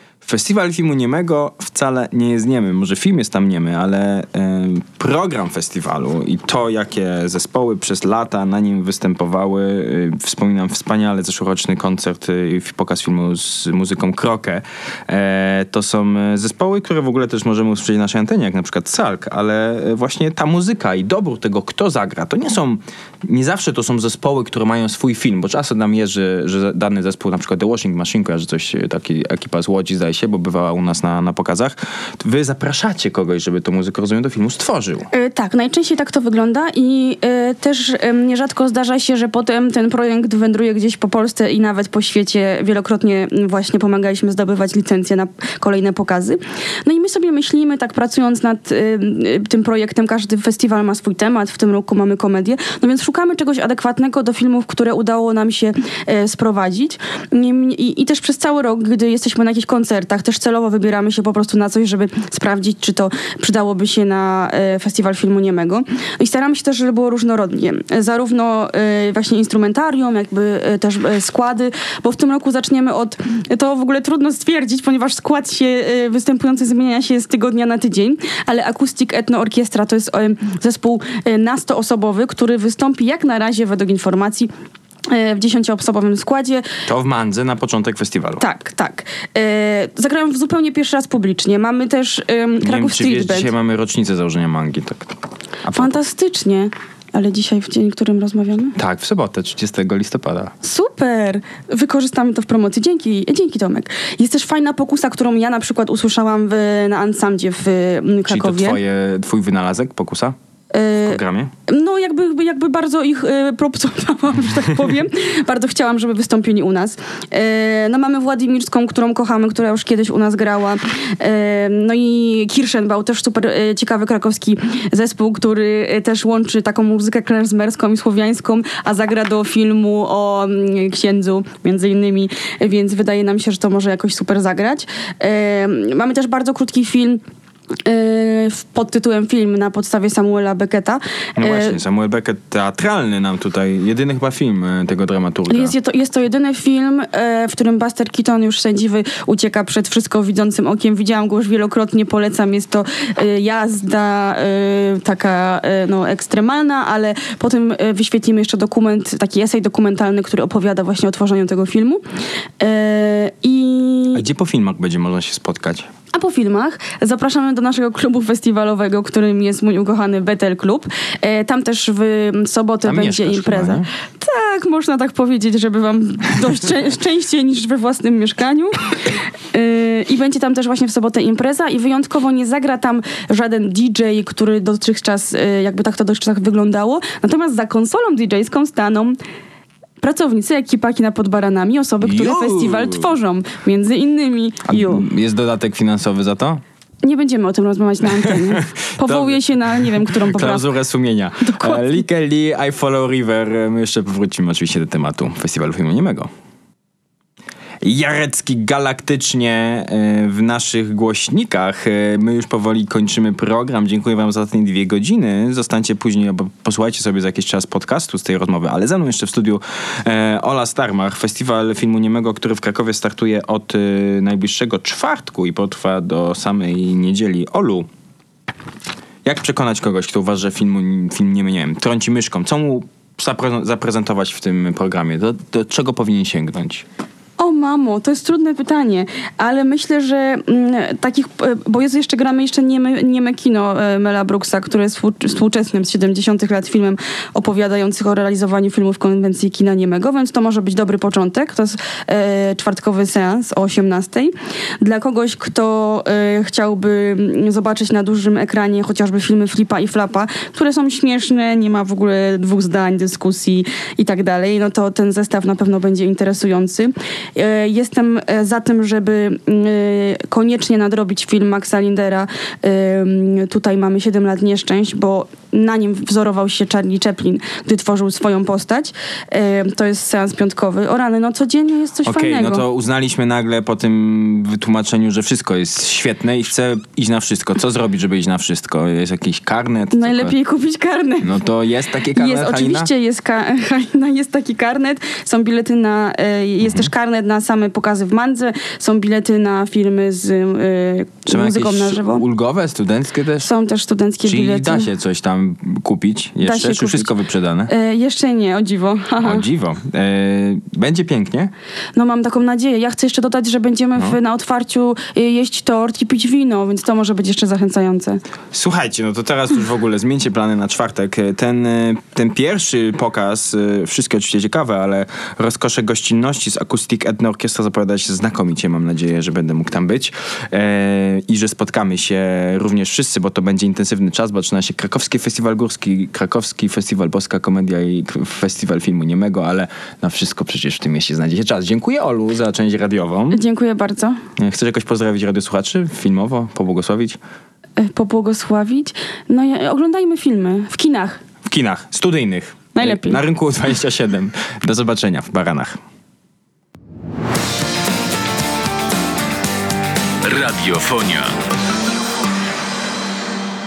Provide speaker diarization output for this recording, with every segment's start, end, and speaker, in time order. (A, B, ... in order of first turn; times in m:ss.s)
0:00.2-0:35.1 A
0:35.1-1:24.5 B
1:25.1-1:26.7 B
1:26.9-1:28.4 A
1:28.4-1:33.5 B
1:32.6-1:36.0 A
1:35.7-1:38.8 B
1:38.8-1:40.5 A
1:40.6-1:48.8 B
1:48.3-1:50.4 A
1:50.7-2:17.2 B
1:51.0-1:51.5 A
2:17.8-2:21.8 B
2:21.4-2:25.7 A
2:25.5-2:42.0 B
2:42.6-2:44.2 B
2:44.1-2:45.9 A
2:46.1-3:09.2 B
2:52.8-2:53.9 A
3:10.0-3:15.1 B
3:12.0-3:13.1 A
3:14.7-3:16.6 A
3:17.0-3:20.7 B
3:18.2-3:26.3 A
3:21.4-3:22.0 B
3:27.8-3:47.9 A
3:49.2-3:56.9 A
3:57.4-4:42.6 B
4:42.0-4:50.3 A
4:49.9-4:51.3 B
4:51.2-4:52.9 A
4:52.1-5:02.2 B
4:56.6-4:56.9 A
5:01.3-5:03.5 A
5:03.4-5:04.9 B
5:04.3-5:07.7 A
5:06.4-5:07.1 B
5:07.7-5:09.4 B
5:09.2-5:11.5 A
5:12.0-5:18.2 B
5:18.5-5:43.4 A
5:43.3-5:44.2 B
5:44.4-5:47.2 A
5:47.8-5:51.2 B
5:51.4-5:55.8 A
5:52.8-5:53.2 B
6:00.2-6:01.4 A